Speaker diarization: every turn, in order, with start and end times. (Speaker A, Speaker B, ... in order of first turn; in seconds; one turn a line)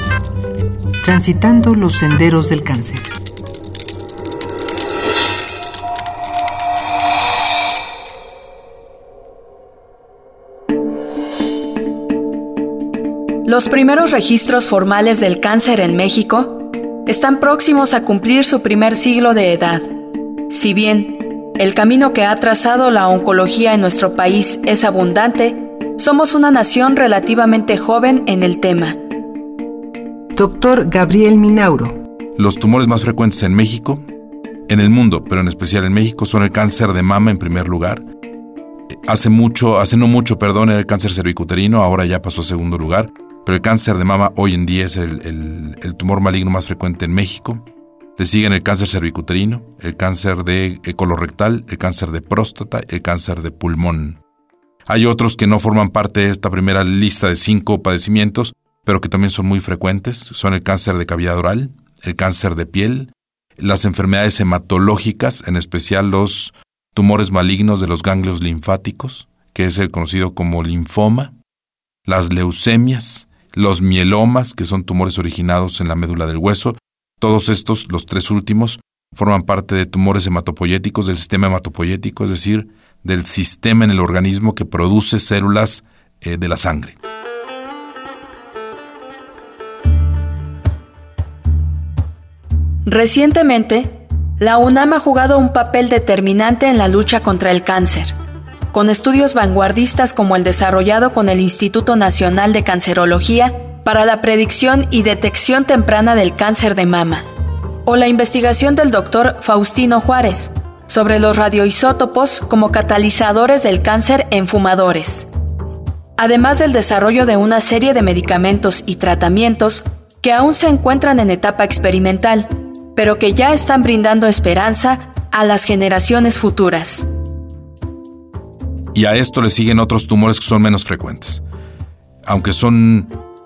Speaker A: 1.0-3.1
Speaker B: 13.4-19.9
Speaker B: 20.5-29.0
Speaker A: 30.3-32.0
Speaker C: 32.4-34.0
Speaker C: 34.7-38.0
Speaker C: 39.1-47.6
Speaker C: 48.2-54.2
Speaker C: 54.9-71.3
Speaker C: 72.1-87.0
Speaker B: 92.8-98.2
Speaker B: 98.7-107.3
Speaker B: 107.8-115.3
Speaker B: 116.2-127.1
Speaker C: 128.9-131.4
Speaker C: 132.2-133.2